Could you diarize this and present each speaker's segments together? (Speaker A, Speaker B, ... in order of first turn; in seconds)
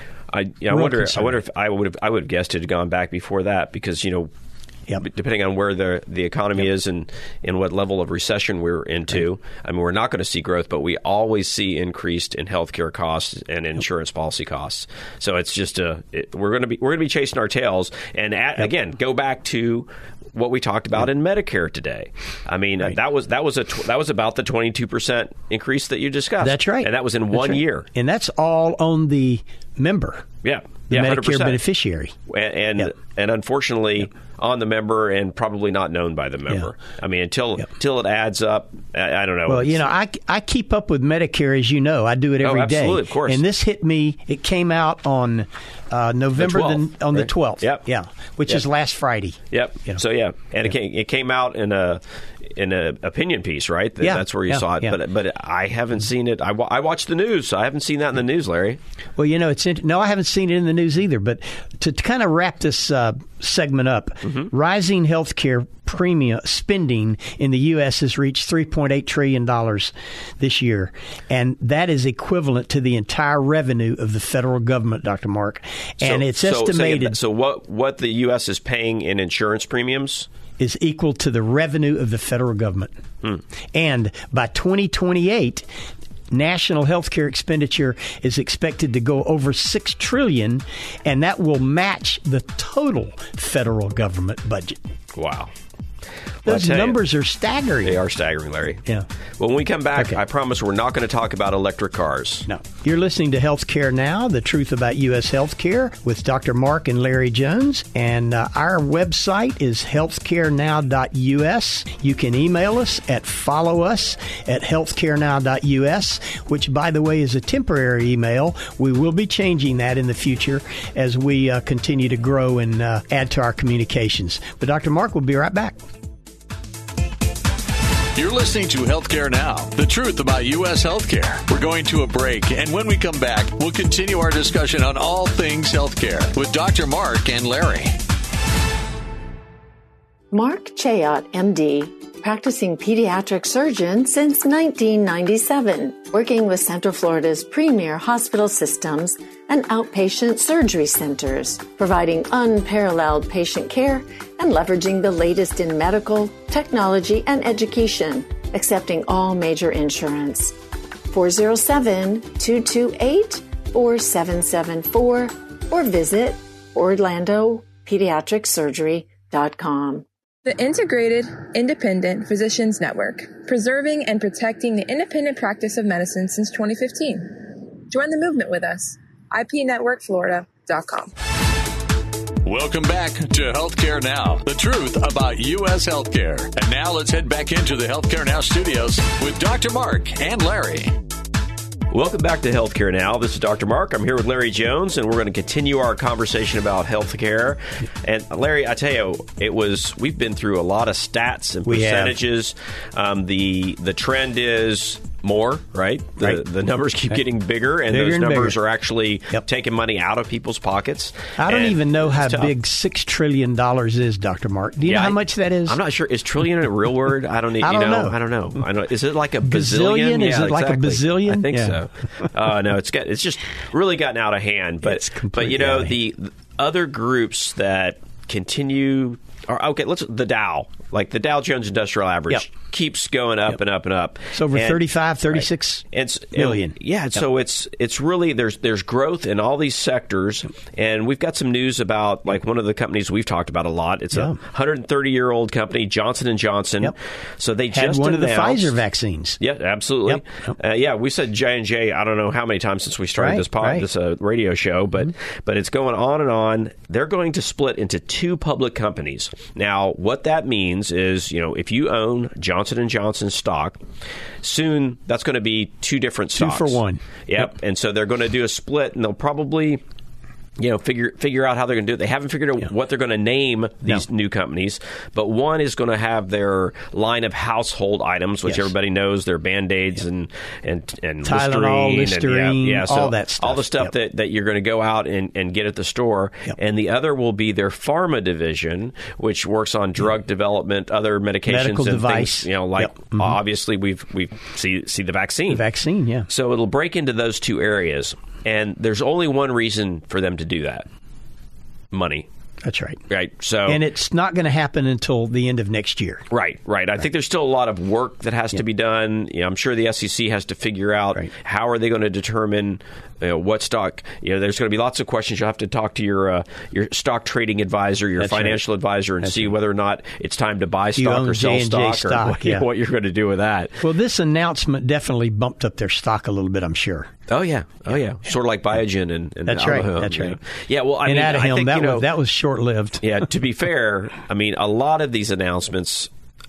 Speaker A: 0.3-4.3, 5.0-27.9, 30.4-31.6, 32.3-39.8, 42.4-43.4, 46.4-47.8, 49.5-58.8, 76.0-80.3, 95.1-95.5, 96.4-97.0, 97.8-98.8, 99.4-102.5, 191.9-212.5, 214.8-248.8, 249.4-263.8, 264.4-269.8, 270.6-295.6, 296.3-300.9, 301.9-302.3, 303.1-303.8, 306.3-323.8, 327.3-332.1, 333.0-336.1
Speaker B: 0.7-1.4, 26.4-30.2, 30.9-32.1, 39.5-50.0, 54.0-55.0, 59.2-77.2, 80.6-82.9, 83.7-85.7, 86.3-94.8, 96.5-98.0, 102.5-125.8, 201.7-202.2, 207.9-208.6, 211.4-215.8, 217.6-218.2, 219.4-221.8, 224.8-225.9, 234.3-235.8, 236.3-236.8, 244.1-244.4, 247.7-249.4, 250.1-250.5, 253.2-253.8, 266.4-267.0, 281.2-283.9, 291.5-293.3, 295.5-296.3, 302.6-303.0, 303.6-306.2, 318.2-318.6, 319.2-319.5, 320.9-322.6, 323.8-327.1, 329.5-330.4, 331.0-333.0
Speaker C: 128.1-137.9, 182.4-190.9
Speaker D: 140.3-160.5, 161.1-170.0
Speaker E: 170.4-181.1